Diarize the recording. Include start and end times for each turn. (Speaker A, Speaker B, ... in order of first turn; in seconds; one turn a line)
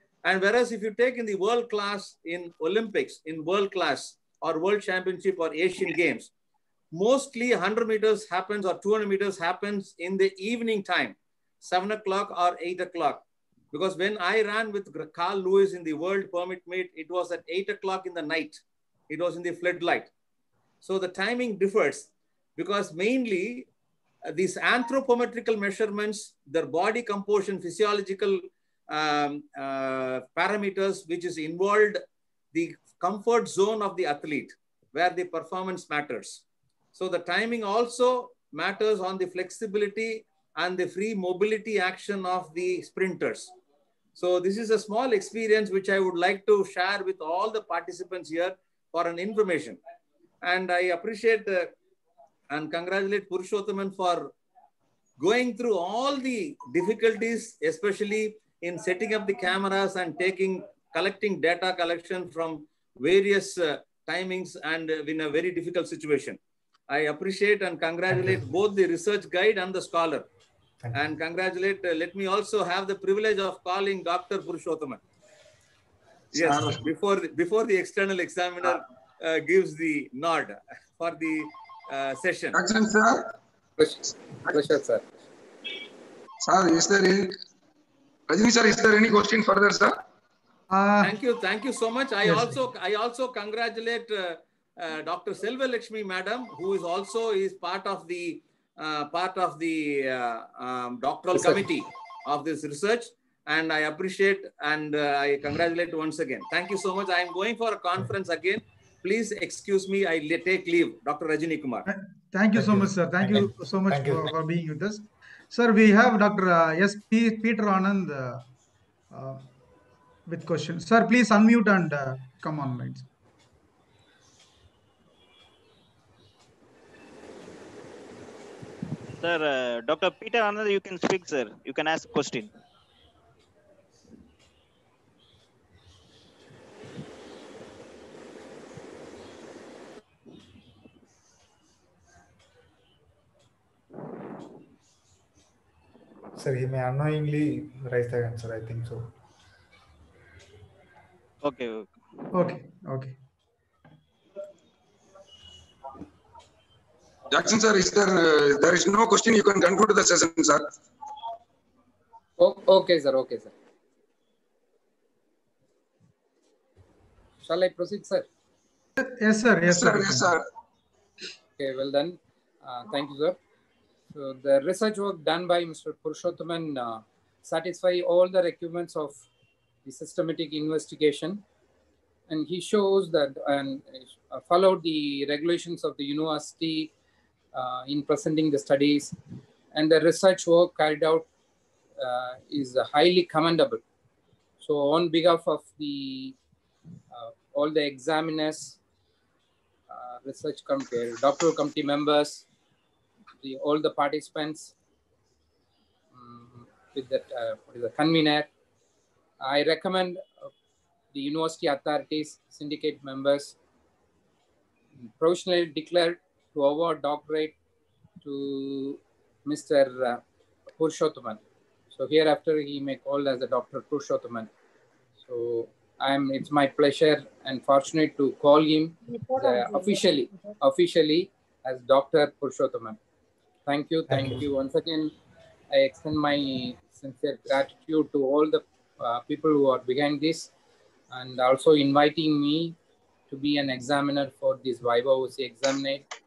Speaker A: 0.2-6.3
Speaker A: 6.9-20.1
Speaker A: 20.8-23.7
Speaker A: 24.3-32.0
Speaker A: 32.5-36.4
Speaker A: 36.9-43.5
Speaker A: 44.1-49.8
Speaker A: 50.4-51.7
Speaker A: 52.5-54.3
Speaker A: 55.2-70.2
Speaker B: 68.1-68.5
Speaker A: 70.9-75.0
Speaker C: 76.3-76.8
Speaker A: 76.3-82.6
Speaker C: 82.5-83.2
Speaker D: 83.8-85.0
Speaker C: 86.4-87.3
Speaker C: 88.3-89.9
Speaker E: 90.7-91.1
Speaker A: 91.0-111.9
Speaker E: 92.2-92.6
Speaker E: 111.9-118.4
Speaker B: 112.5-114.3
Speaker E: 119.1-119.4
Speaker E: 120.3-123.0
Speaker F: 129.2-132.5
Speaker B: 146.3-149.1
Speaker F: 151.4-151.9
Speaker E: 152.3-153.2
Speaker C: 157.3-160.7
Speaker D: 162.4-163.5
Speaker D: 167.4-168.3
Speaker E: 169.0-170.3
Speaker C: 169.6-170.4
Speaker D: 171.6-173.4
Speaker D: 174.1-179.2
Speaker D: 179.8-181.4
Speaker D: 182.3-186.9
Speaker D: 187.5-189.1
Speaker D: 189.7-191.3
Speaker D: 192.0-193.8
Speaker D: 194.6-196.3
Speaker D: 197.1-198.8
Speaker D: 199.9-202.4
Speaker D: 203.4-204.7
Speaker D: 206.1-208.5
Speaker D: 209.4-210.5
Speaker D: 211.1-213.6
Speaker D: 215.0-217.6
Speaker D: 218.2-220.2
Speaker D: 220.8-221.4
Speaker D: 221.9-224.5
Speaker D: 225.2-233.0
Speaker D: 233.7-235.1
Speaker B: 234.1-234.4
Speaker D: 235.7-240.5
Speaker D: 241.1-242.8
Speaker D: 243.3-246.1